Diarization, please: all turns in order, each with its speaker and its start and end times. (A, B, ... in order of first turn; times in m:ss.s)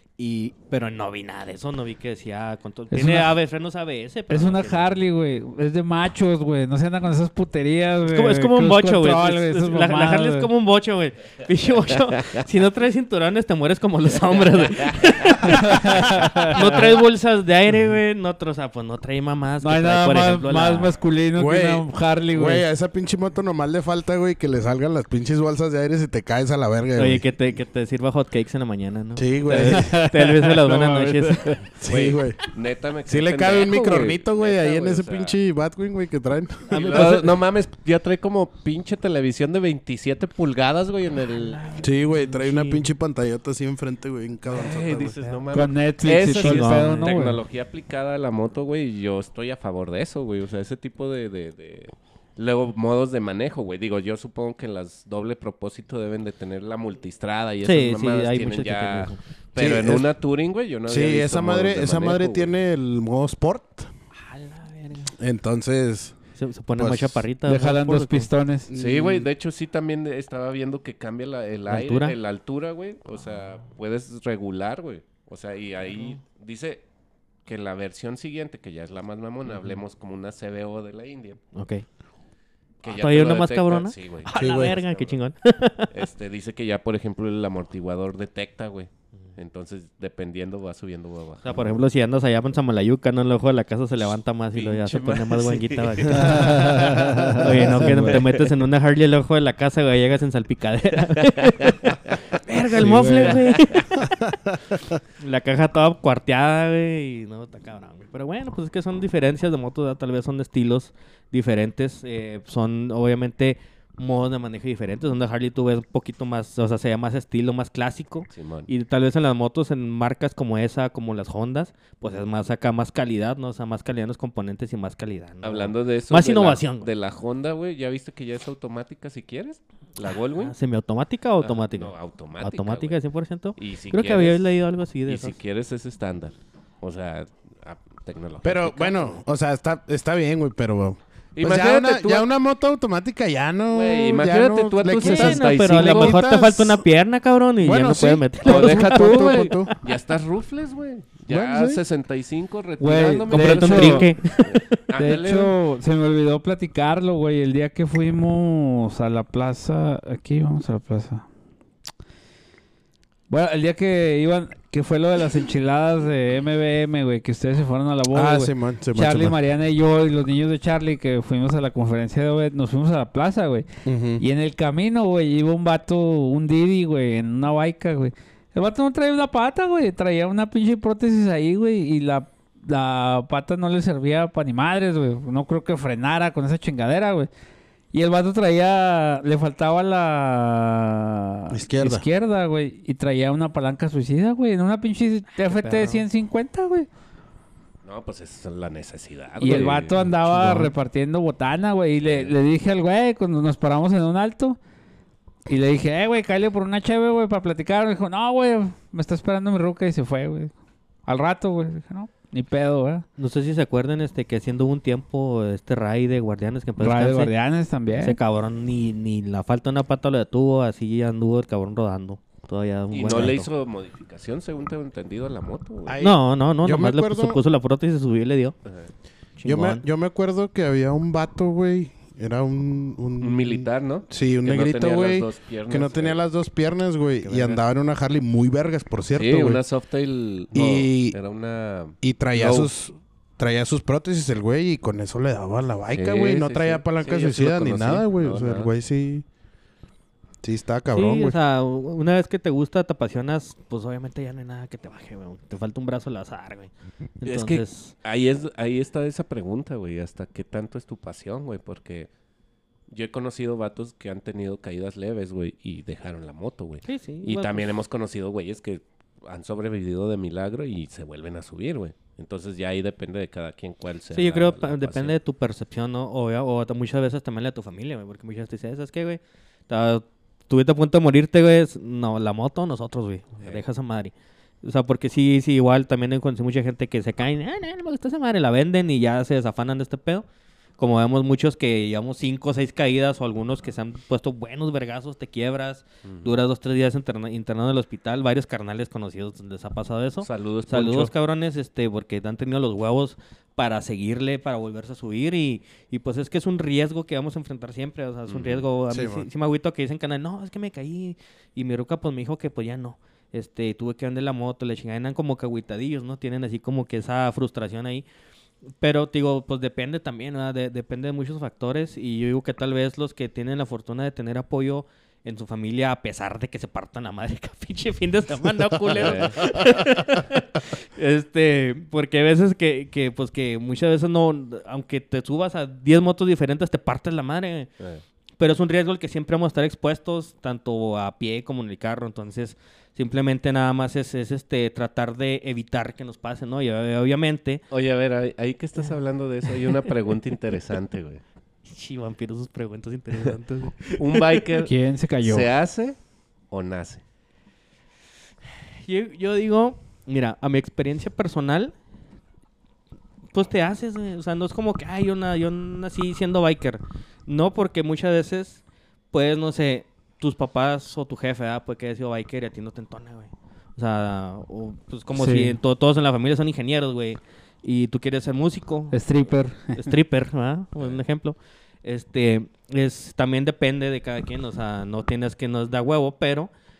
0:00.2-0:04.9 A
0:02.9-0:03.4 B
0:04.3-0:10.5 B
0:08.1-0:20.9 A
0:15.4-0:16.9 B
0:19.6-0:22.6 B
0:21.4-0:27.3 C
0:27.0-0:31.7 A
0:29.2-0:30.0 C
0:29.6-0:31.6 B
0:31.8-0:32.4 C
0:31.9-0:35.4 D
0:33.1-0:37.3 C
0:36.7-0:37.3 A
0:36.7-0:41.7 D
0:41.3-0:42.8 A
0:41.8-0:45.2 C
0:44.5-1:02.5 D
0:45.2-0:45.7 A
0:45.5-0:47.4 B
0:46.3-0:47.2 A
0:57.6-0:59.2 A
0:59.6-1:00.1 C
1:00.9-1:03.9 C
1:04.3-1:05.1 A
1:05.2-1:06.2 C
1:06.4-1:08.3 A
1:06.8-1:07.2 C
1:07.5-1:08.7 B
1:08.7-1:09.3 C
1:08.8-1:16.8 D
1:11.7-1:12.2 A
1:15.9-1:16.2 A
1:17.5-1:21.4 D
1:19.5-1:19.8 A
1:21.6-1:21.9 A
1:22.8-1:25.2 D
1:22.8-1:25.9 A
1:24.3-1:24.8 C
1:25.9-1:31.8 D
1:31.4-1:36.8 A
1:34.5-1:38.5 D
1:36.1-1:38.2 B
1:37.4-1:44.0 A
1:42.8-1:43.4 B
1:43.1-1:43.8 D
1:44.1-1:44.6 C
1:45.2-2:06.9 A
1:58.3-1:58.7 D
2:05.4-2:10.6 D
2:10.4-2:15.4 A
2:11.4-2:13.0 D
2:13.6-2:19.1 D
2:18.4-2:26.8 C
2:21.4-2:22.3 D
2:23.7-2:26.2 D
2:25.0-2:29.6 A
2:27.6-2:29.8 C
2:28.4-2:35.5 D
2:31.3-2:31.8 C
2:32.8-2:34.1 B
2:33.3-2:34.7 A
2:35.0-2:41.3 B
2:43.3-2:53.7 B
2:48.1-2:49.4 C
2:53.8-2:54.2 C
2:54.2-3:07.3 B
3:07.9-3:16.9 B
3:11.5-3:12.1 C
3:15.5-3:16.0 A
3:17.8-3:20.6 D
3:19.4-3:24.6 B
3:22.1-3:22.3 D
3:25.5-3:30.5 B
3:31.1-3:33.0 B
3:33.2-3:37.3 A
3:36.8-3:38.2 B
3:38.0-3:43.5 A
3:42.9-3:46.0 D
3:45.9-3:47.4 C
3:46.0-3:48.6 A
3:49.4-3:49.8 A
3:49.4-3:59.6 C
3:53.2-3:56.2 D
3:57.2-3:57.6 D
3:59.2-4:02.7 D
4:00.5-4:01.2 C
4:02.0-4:09.2 C
4:05.9-4:08.7 D
4:10.4-4:11.4 C
4:10.9-4:17.9 A
4:17.2-4:22.1 D
4:22.9-4:35.2 D
4:26.9-4:27.7 A
4:34.1-4:50.2 A
4:50.8-5:18.0 A
4:56.0-4:56.3 D
5:00.2-5:01.1 D
5:08.3-5:08.6 D
5:08.9-5:09.3 C
5:18.8-5:37.7 A
5:28.9-5:29.4 D
5:38.4-5:47.6 A
5:47.7-5:51.2 D
5:51.7-5:54.5 A
5:54.0-5:54.7 D
5:54.6-5:55.5 B
5:55.2-5:56.0 D
5:56.5-5:57.0 D
5:58.8-6:01.7 A
6:03.3-6:19.0 A
6:15.1-6:15.6 B
6:18.9-6:19.9 B
6:19.8-6:26.5 A